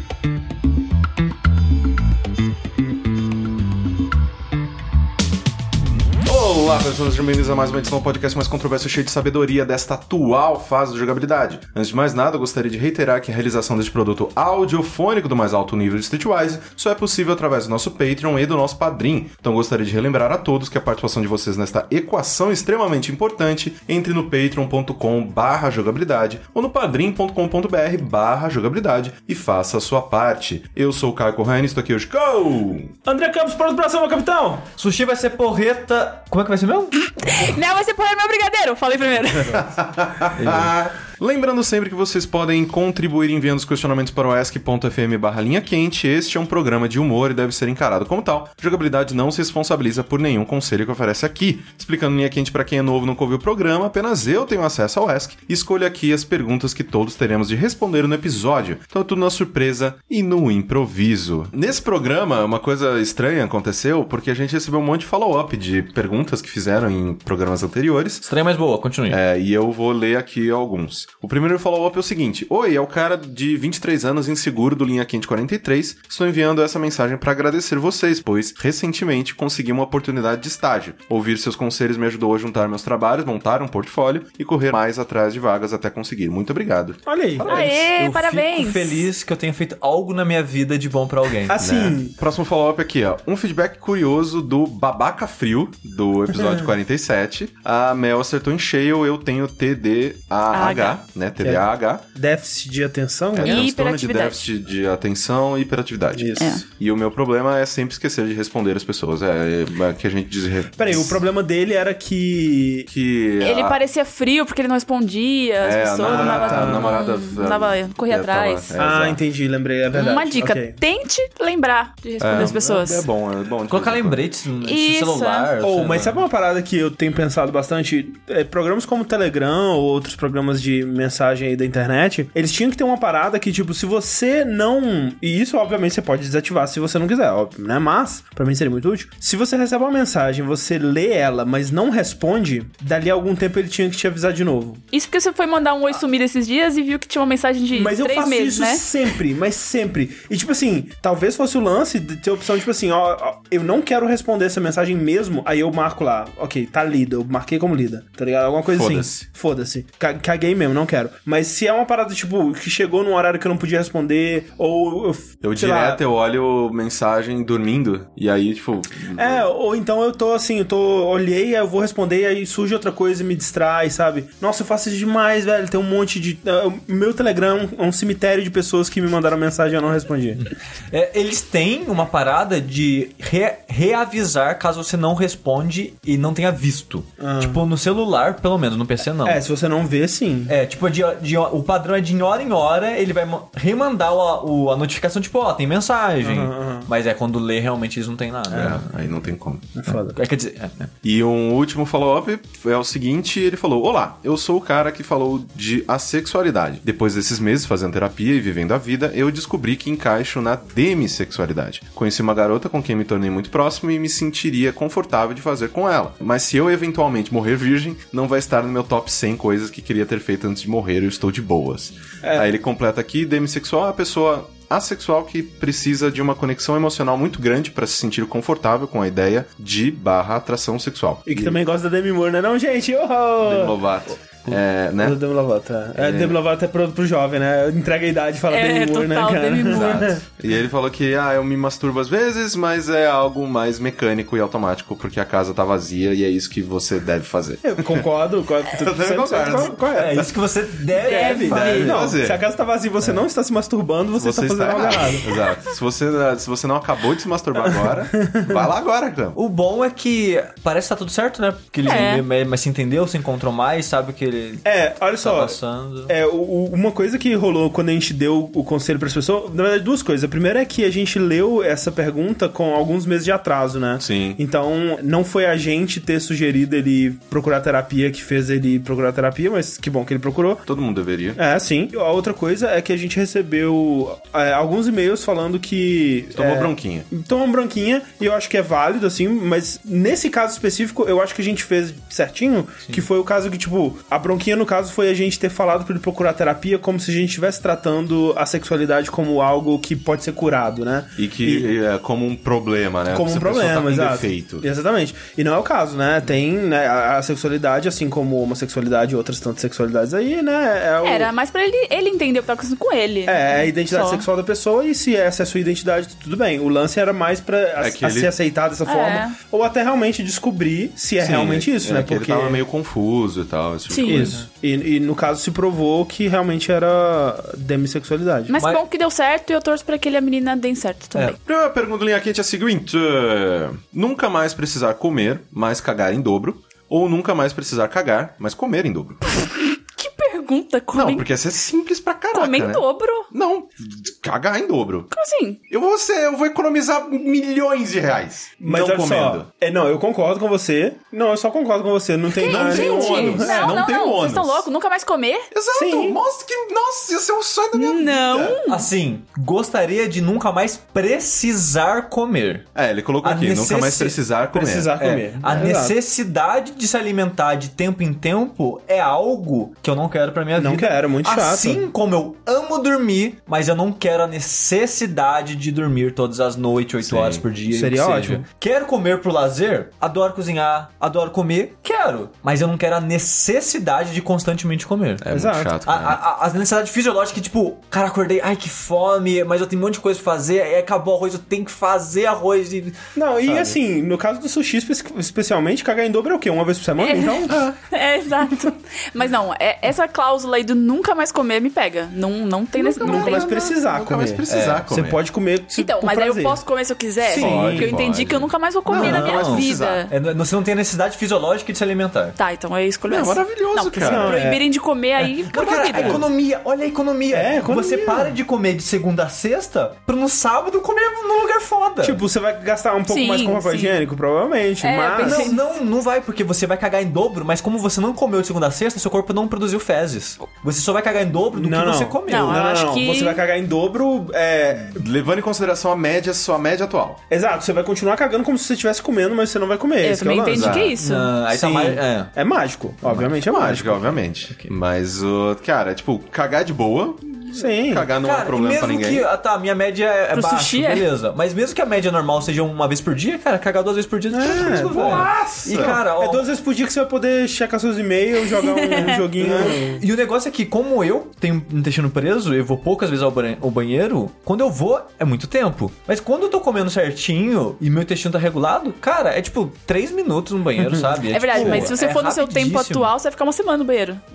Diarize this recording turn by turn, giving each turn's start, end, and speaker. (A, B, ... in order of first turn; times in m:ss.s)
0:06.2-0:32.9 A
0:33.1-0:34.7 B
0:34.8-0:37.0 C
0:37.2-0:39.7 D
0:39.5-1:08.3 A
0:40.3-0:40.7 C
1:08.2-1:09.2 C
1:09.1-1:27.9 A
1:27.0-1:27.7 B
1:27.5-1:29.0 D
1:27.9-1:31.6 C
1:31.5-1:32.1 B
1:31.6-1:42.0 A
1:40.5-1:41.0 D
1:41.4-1:43.7 B
1:43.3-1:51.2 A
1:43.4-1:44.5 D
1:46.1-1:46.6 B
1:46.4-1:46.6 D
1:50.8-1:52.9 B
1:52.9-1:53.8 A
1:53.4-1:58.7 D
1:55.6-1:59.2 A
1:56.0-1:57.0 B
1:58.8-2:00.8 B
1:59.9-2:03.0 D
2:02.2-2:04.2 A
2:03.7-2:06.2 C
2:04.6-2:05.5 D
2:05.6-2:24.8 B
2:24.9-2:29.1 D
2:27.7-2:46.0 B
2:38.7-2:39.2 A
2:45.4-2:49.5 A
2:49.2-3:00.4 B
3:00.4-3:09.4 C
3:07.2-3:07.6 B
3:09.2-3:10.6 B
3:10.5-3:18.8 C
3:16.2-3:16.9 B
3:18.5-3:19.7 A
3:19.8-3:20.2 B
3:19.8-3:20.9 C
3:21.0-3:51.6 A
3:42.2-3:42.5 B
3:51.3-3:53.8 B
3:53.4-3:55.2 A
3:54.5-4:00.2 B
3:56.0-3:56.4 A
3:58.5-4:00.2 D
3:59.7-4:08.0 A
4:07.6-4:10.3 B
4:08.7-4:10.3 A
4:09.9-4:12.1 C
4:11.0-4:12.0 D
4:11.1-4:15.3 B
4:11.5-4:12.4 A
4:14.2-4:19.4 A
4:18.2-4:18.6 B
4:19.4-4:24.6 C
4:21.8-4:22.2 D
4:24.6-4:40.6 B
4:25.2-4:26.1 C
4:34.0-4:34.4 A
4:40.7-4:41.4 A
4:41.4-5:01.7 B
4:46.3-4:47.1 A
5:01.2-5:04.7 A
5:03.1-5:11.3 B
5:11.0-5:14.3 D
5:13.3-5:22.6 B
5:17.8-5:18.3 A
5:18.8-5:19.4 D
5:21.2-5:24.4 A
5:23.9-5:24.4 D
5:24.1-5:28.5 B
5:28.5-5:31.4 D
5:31.4-5:39.2 A
5:39.4-5:41.3 D
5:40.9-5:45.1 A
5:42.3-5:43.3 D
5:45.1-5:45.6 D
5:45.7-5:49.5 A
5:48.6-5:53.8 B
5:52.3-5:55.5 D
5:52.4-5:54.6 A
5:55.5-5:58.6 A
5:55.7-5:56.2 B
5:57.8-5:58.9 D
5:58.6-6:02.7 C
6:02.8-6:05.2 A
6:03.2-6:04.2 C
6:04.5-6:06.0 B
6:05.0-6:25.3 C
6:10.6-6:11.9 B
6:17.0-6:17.4 A
6:17.7-6:18.4 B
6:25.2-6:26.2 A
6:25.3-6:25.8 B
6:25.8-6:33.8 C
6:33.2-6:37.7 B
6:37.0-6:43.8 D
6:42.8-6:45.2 A
6:43.0-6:46.6 B
6:44.5-6:45.1 C
6:45.8-6:50.1 D
6:47.2-6:47.9 C
6:47.3-6:50.0 A
6:47.4-6:47.9 B
6:48.9-6:52.4 C
6:52.4-6:56.3 D
6:53.1-6:54.4 A
6:54.0-6:54.6 B
6:55.2-7:02.2 C
6:57.3-6:58.4 B
7:02.0-7:05.5 B
7:03.1-7:04.0 D
7:04.8-7:05.7 D
7:05.2-7:12.6 C
7:11.5-7:15.0 B
7:12.3-7:13.4 D
7:14.9-7:17.2 A
7:17.3-7:20.9 B
7:20.0-7:21.4 D
7:20.5-7:20.9 A
7:21.0-7:22.3 C
7:21.5-7:24.1 B
7:23.0-7:24.7 C
7:23.5-7:29.3 A
7:27.5-7:28.1 B
7:28.2-7:36.4 C
7:30.3-7:31.1 D
7:34.3-7:40.0 B
7:34.5-7:36.0 A
7:38.5-7:39.2 D
7:39.4-7:53.1 C
7:51.0-7:52.0 B
7:51.3-7:54.2 D